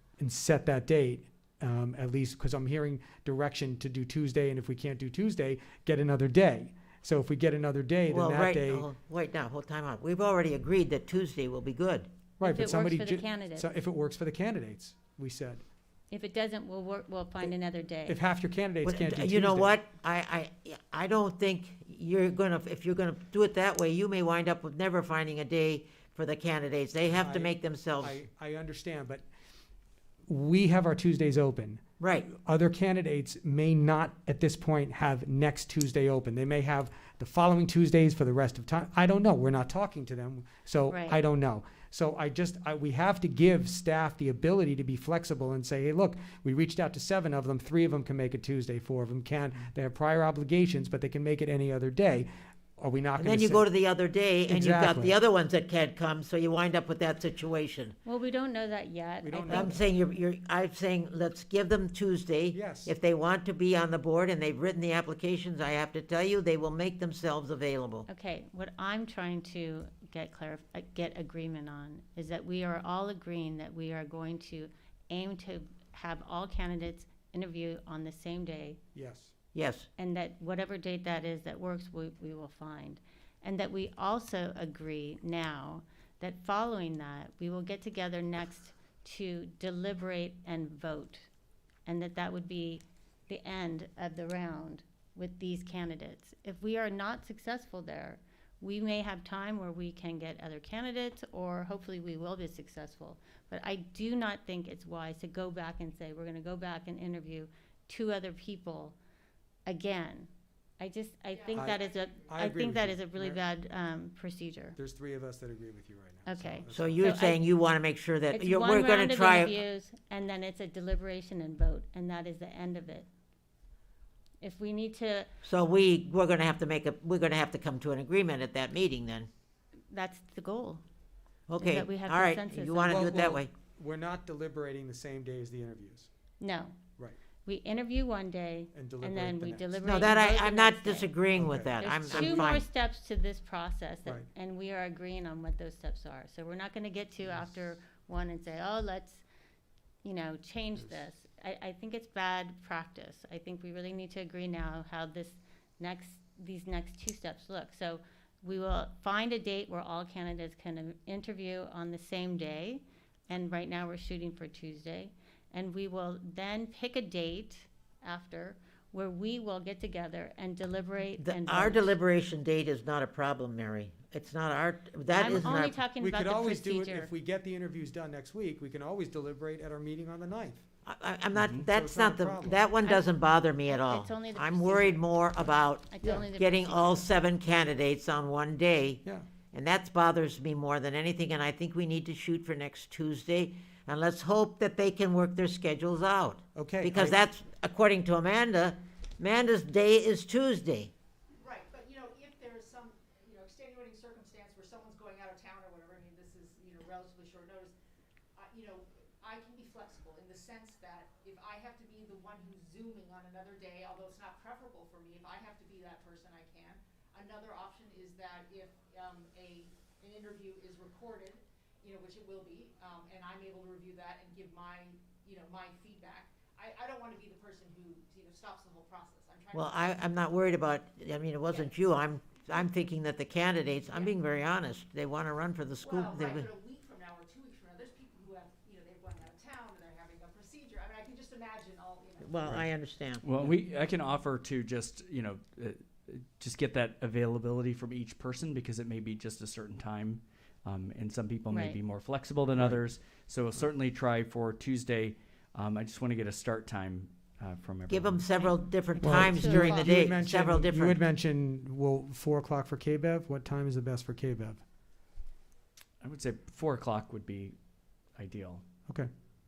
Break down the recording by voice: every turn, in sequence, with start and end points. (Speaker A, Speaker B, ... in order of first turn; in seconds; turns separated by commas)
Speaker A: 0.2-8.9, Speaker B: 8.1-12.1, Speaker A: 12.4-15.6, Speaker C: 12.4-13.7, Speaker C: 16.1-18.2, Speaker A: 18.1-19.8, Speaker B: 18.9-28.2, Speaker A: 27.1-29.3, Speaker A: 30.3-53.6, Speaker B: 32.0-32.3, Speaker C: 40.9-41.2, Speaker B: 53.2-58.0, Speaker A: 54.5-55.2, Speaker C: 58.1-59.8, Speaker A: 59.2-59.8, Speaker B: 59.5-68.1, Speaker A: 62.5-63.0, Speaker C: 68.1-78.8, Speaker A: 79.0-79.3, Speaker B: 79.5-79.9, Speaker C: 80.0-91.3, Speaker C: 91.9-109.0, Speaker C: 109.7-114.8, Speaker D: 111.3-112.5, Speaker A: 111.5-113.4, Speaker A: 114.8-117.0, Speaker C: 116.3-117.4, Speaker B: 116.7-119.6, Speaker C: 118.3-123.1, Speaker C: 124.4-125.3, Speaker B: 125.4-129.3, Speaker C: 129.9-130.8, Speaker B: 131.5-133.5, Speaker C: 131.6-133.3, Speaker A: 132.9-136.1, Speaker C: 136.4-136.8, Speaker C: 137.4-141.1, Speaker A: 138.7-139.8, Speaker B: 139.8-142.7, Speaker A: 141.4-142.6, Speaker C: 141.8-149.2, Speaker A: 147.2-147.6, Speaker C: 150.0-171.9, Speaker B: 171.2-175.8, Speaker C: 175.1-177.1, Speaker A: 175.2-180.6, Speaker B: 180.8-200.9, Speaker A: 181.6-182.7, Speaker C: 183.7-187.1, Speaker A: 196.6-197.2, Speaker D: 201.4-207.7, Speaker D: 208.4-229.9, Speaker B: 229.5-236.5, Speaker D: 233.8-234.2, Speaker D: 235.8-242.7, Speaker B: 242.2-243.5, Speaker E: 243.2-258.2, Speaker C: 251.5-251.8, Speaker B: 257.9-261.0, Speaker C: 258.4-259.9, Speaker A: 259.0-264.6, Speaker E: 266.0-267.6, Speaker E: 268.2-268.6